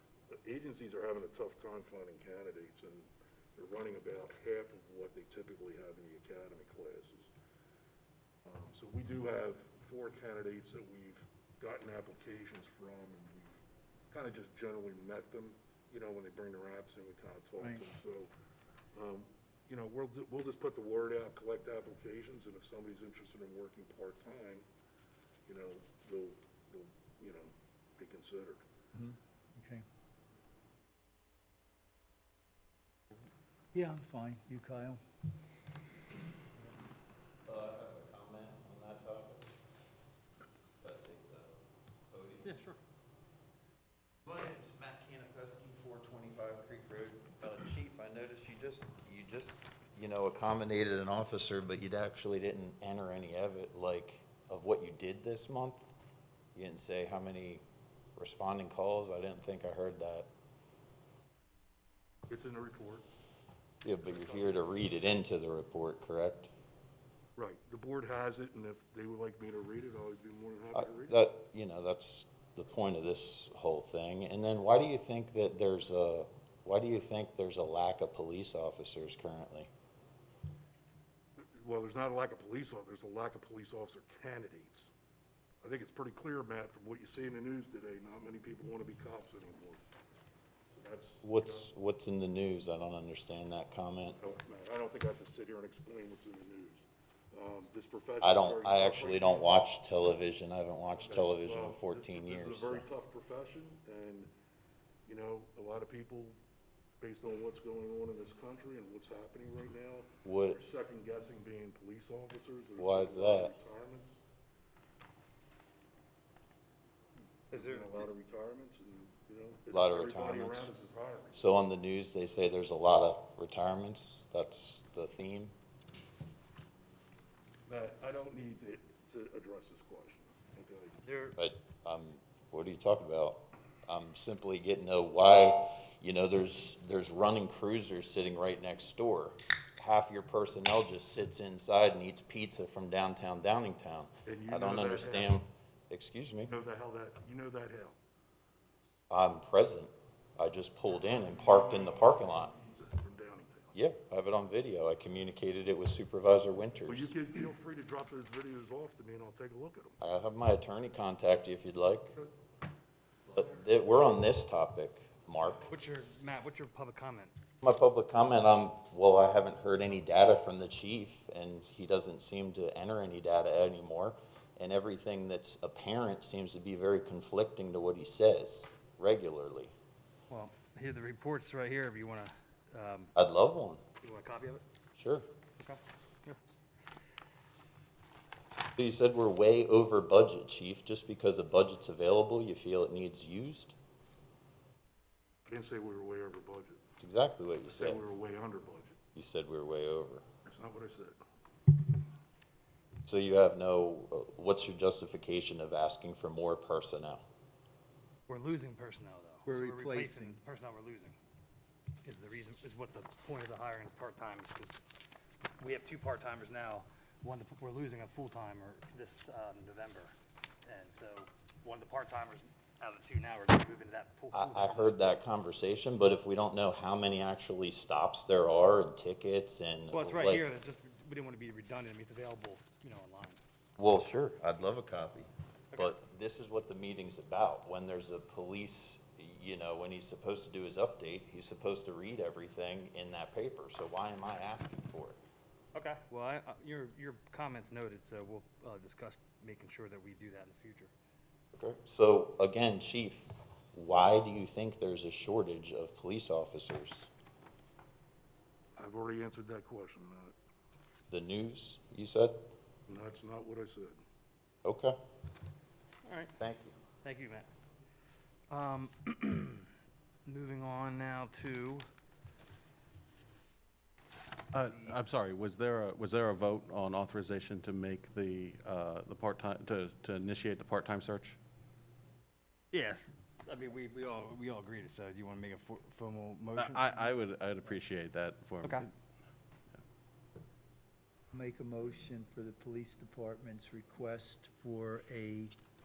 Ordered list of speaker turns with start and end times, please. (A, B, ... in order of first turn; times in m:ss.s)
0:00.3-0:07.3 A
0:08.4-0:13.6 A
0:14.1-0:18.3 A
0:18.9-0:24.6 A
0:25.5-0:28.6 A
0:28.9-0:29.8 B
0:33.7-0:35.0 B
0:37.4-0:39.5 C
0:40.8-0:42.5 C
0:42.4-0:42.8 D
0:44.2-0:55.9 C
0:56.6-0:57.6 C
0:58.2-1:00.3 C
1:02.3-1:03.0 A
1:03.8-1:06.5 C
1:04.0-1:04.7 A
1:07.4-1:11.2 A
1:10.7-1:19.7 C
1:21.4-1:24.9 A
1:25.6-1:29.8 A
1:30.7-1:31.7 A
1:31.2-1:34.2 C
1:34.2-1:39.6 A
1:38.2-1:42.9 C
1:41.0-1:44.3 A
1:45.1-1:46.4 A
1:47.0-1:54.2 A
1:50.2-1:50.6 C
1:52.8-1:53.5 C
1:57.5-2:01.4 A
1:57.5-1:58.1 D
1:59.7-2:00.7 C
2:01.3-2:05.5 C
2:07.7-2:11.0 A
2:11.0-2:11.4 D
2:11.4-2:26.5 C
2:24.3-2:25.4 A
2:26.5-2:28.0 A
2:29.1-2:32.5 C
2:31.0-2:33.8 A
2:33.8-2:37.1 C
2:36.9-2:40.0 A
2:40.0-2:42.1 C
2:43.3-2:45.7 C
2:45.7-2:47.3 D
2:47.6-2:59.7 C
3:00.3-3:03.1 D
3:03.2-3:03.8 C
3:04.0-3:04.6 D
3:05.0-3:05.3 C
3:05.6-3:06.4 D
3:08.8-3:13.8 C
3:15.5-3:16.8 A
3:17.0-3:18.0 C
3:17.7-3:19.0 A
3:19.2-3:20.2 C
3:20.4-3:21.2 A
3:23.1-3:27.2 C
3:28.3-3:31.2 D
3:29.5-3:30.4 B
3:32.0-3:34.8 D
3:35.6-3:40.1 D
3:40.7-3:45.0 D
3:44.3-3:50.4 C
3:49.9-3:53.4 D
3:53.8-4:05.2 C
4:05.7-4:10.9 D
4:11.5-4:17.1 C
4:18.8-4:20.4 A
4:21.1-4:22.4 C
4:22.9-4:24.0 A
4:24.6-4:25.0 C
4:26.0-4:26.3 D
4:26.4-4:26.8 C
4:27.0-4:27.5 D
4:28.5-4:29.7 D
4:30.3-4:31.9 D
4:34.5-4:41.4 E
4:42.7-4:47.0 D
4:46.6-4:48.9 E
4:51.3-4:55.5 B